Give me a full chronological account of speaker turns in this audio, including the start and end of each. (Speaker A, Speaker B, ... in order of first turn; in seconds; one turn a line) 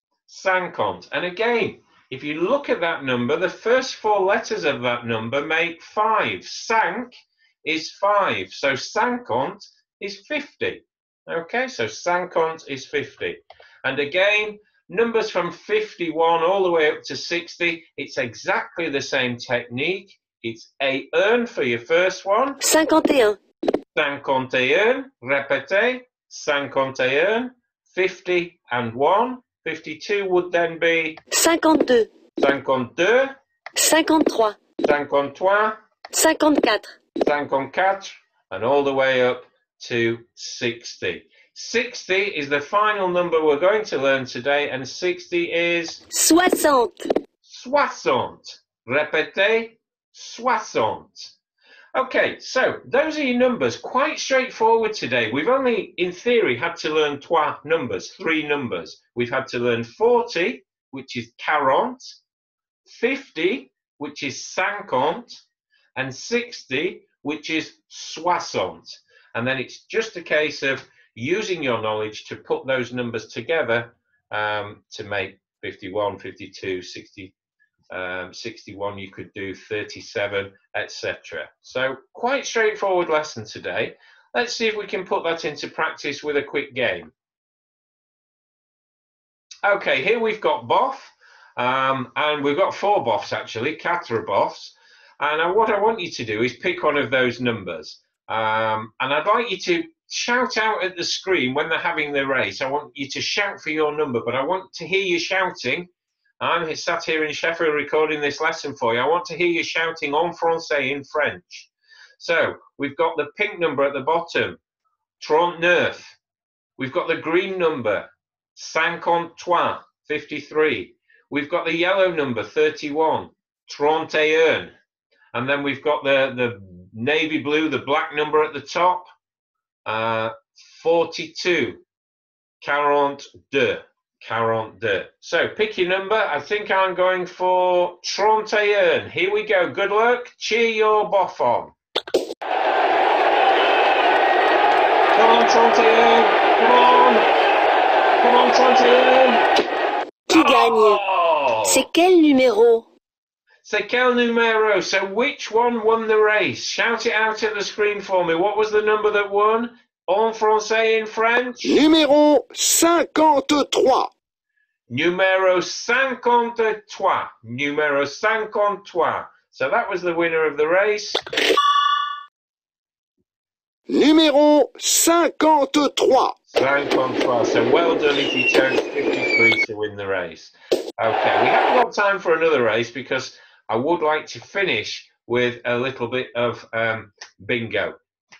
Speaker A: 0.3-22.6
Speaker B: 22.6-23.4
Speaker A: 23.9-31.2
Speaker B: 31.3-32.1
Speaker A: 32.4-33.4
Speaker B: 33.8-34.6
Speaker A: 34.8-35.8
Speaker B: 36.1-36.9
Speaker A: 37.2-46.0
Speaker B: 46.1-47.0
Speaker A: 47.4-51.4
Speaker A: 52.0-62.2
Speaker A: 62.9-65.4
Speaker A: 66.0-77.3
Speaker A: 77.9-87.1
Speaker A: 89.6-105.9
Speaker A: 106.4-114.6
Speaker A: 115.2-116.2
Speaker A: 116.8-124.7
Speaker A: 125.3-129.1
Speaker A: 129.9-131.8
Speaker A: 132.6-141.8
Speaker A: 145.1-147.3
Speaker A: 148.2-149.4
Speaker B: 150.3-151.0
Speaker A: 150.3-151.9
Speaker B: 151.6-152.9
Speaker A: 153.6-161.9
Speaker C: 161.6-164.1
Speaker A: 164.9-171.2
Speaker C: 173.9-176.3
Speaker A: 176.5-188.0